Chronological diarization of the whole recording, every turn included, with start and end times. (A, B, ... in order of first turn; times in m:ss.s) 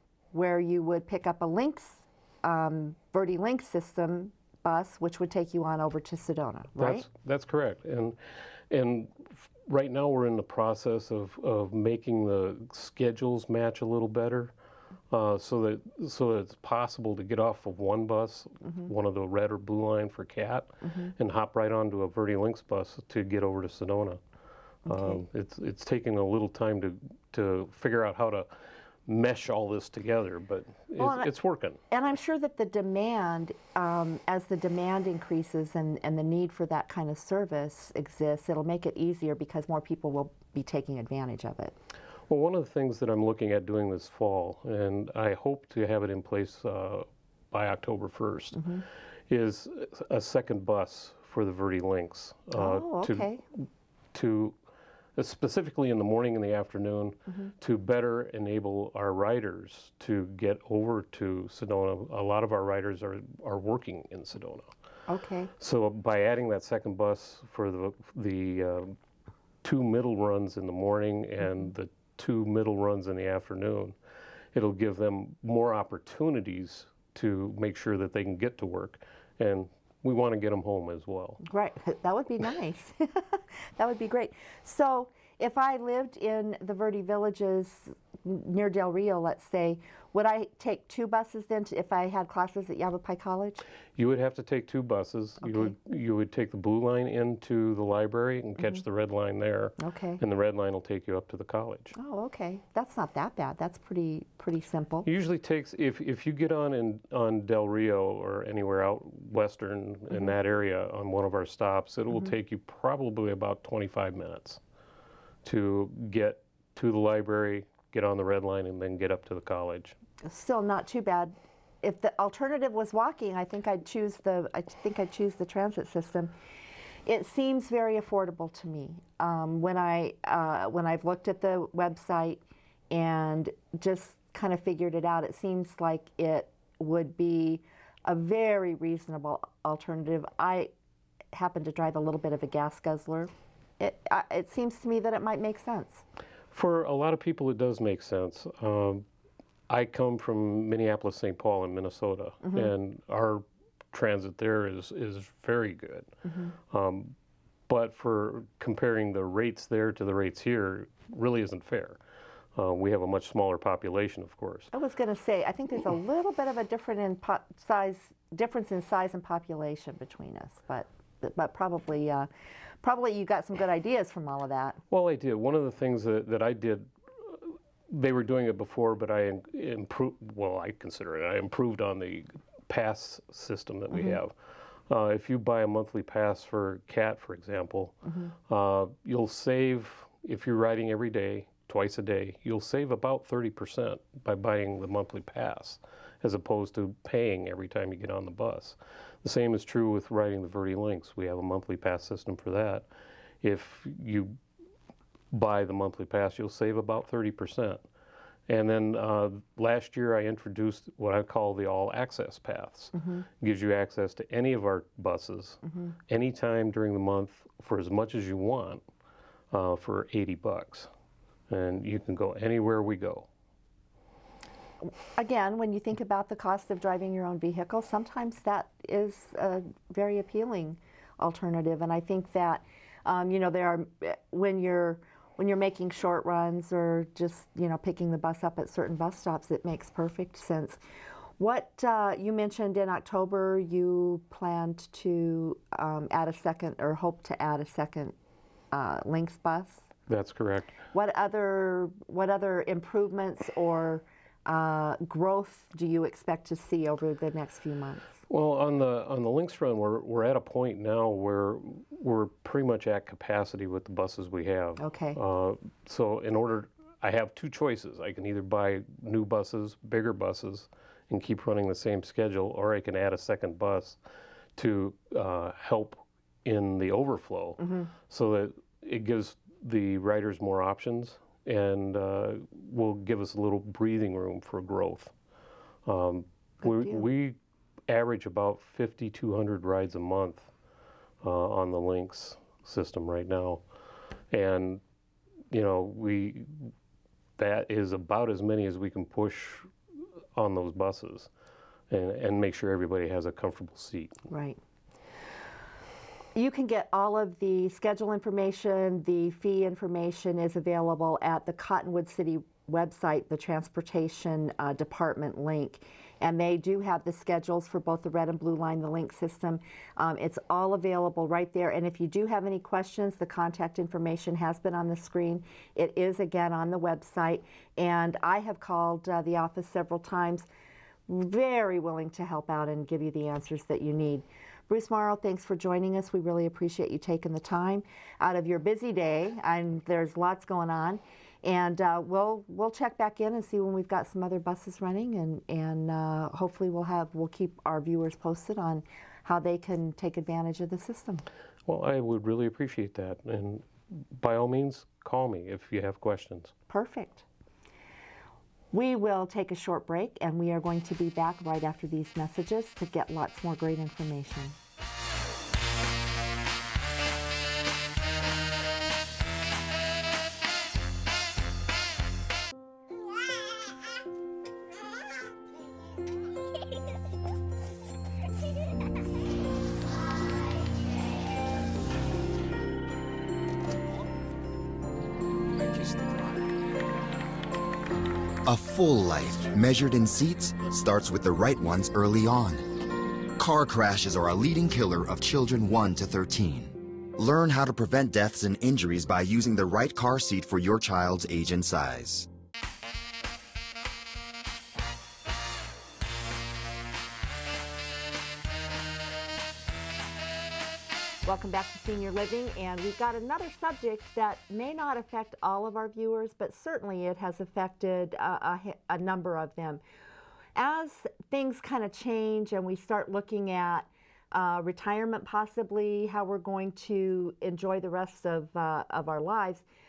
0:00.3-0:07.1 A
0:06.8-0:08.2 B
0:08.7-0:14.5 B
0:15.1-0:24.2 B
0:20.8-0:21.1 A
0:24.9-0:25.2 A
0:24.9-0:28.5 B
0:29.1-0:31.8 B
0:31.0-0:31.3 A
0:31.9-0:41.8 A
0:42.3-0:48.6 B
0:48.6-0:48.8 A
0:49.3-0:54.6 B
0:52.5-0:53.4 A
0:55.2-1:04.7 B
1:05.1-1:05.5 A
1:05.6-1:09.0 B
1:09.6-1:14.0 B
1:11.4-1:11.7 A
1:14.5-1:21.4 B
1:21.4-1:33.6 A
1:34.0-1:41.9 B
1:35.4-1:35.8 A
1:38.6-1:38.8 A
1:39.8-1:40.2 A
1:42.0-1:45.1 A
1:45.0-1:54.6 B
1:55.4-2:00.0 B
2:00.2-2:06.3 A
2:07.1-2:20.7 A
2:21.3-2:26.0 A
2:26.5-2:29.0 B
2:29.7-2:36.1 B
2:32.4-2:32.7 A
2:36.2-2:36.6 A
2:36.7-2:37.2 B
2:37.7-2:42.0 B
2:42.6-2:44.7 B
2:44.7-2:52.3 A
2:52.8-2:54.8 A
2:54.9-2:56.9 B
2:57.9-3:04.4 B
3:03.9-3:04.2 A
3:04.9-3:22.9 B
3:08.0-3:08.3 A
3:23.4-3:24.4 B
3:25.3-3:27.8 B
3:28.5-3:38.8 B
3:32.9-3:33.2 A
3:35.6-3:35.9 A
3:39.5-3:40.9 B
3:41.5-3:43.3 B
3:44.8-4:00.8 A
4:01.4-4:08.2 A
4:08.7-4:09.9 A
4:10.1-4:10.8 B
4:10.9-4:18.2 A
4:18.3-4:34.0 B
4:24.8-4:25.2 A
4:34.6-4:45.1 B
4:37.6-4:37.9 A
4:45.9-4:47.4 B
4:46.6-4:47.1 A
4:47.9-4:50.5 B
4:51.2-4:53.6 B
4:54.3-4:54.8 B
4:55.5-4:56.7 B
4:57.4-4:59.7 B
5:00.4-5:01.3 B
5:01.9-5:04.2 B
5:04.3-5:04.6 A
5:06.4-5:30.5 A
5:31.1-5:51.3 A
5:51.7-5:56.5 B
5:56.7-5:57.3 A
5:58.7-6:04.6 A
6:28.5-6:32.7 C
6:33.4-6:42.3 C
6:51.2-6:59.8 A
7:00.6-7:09.6 A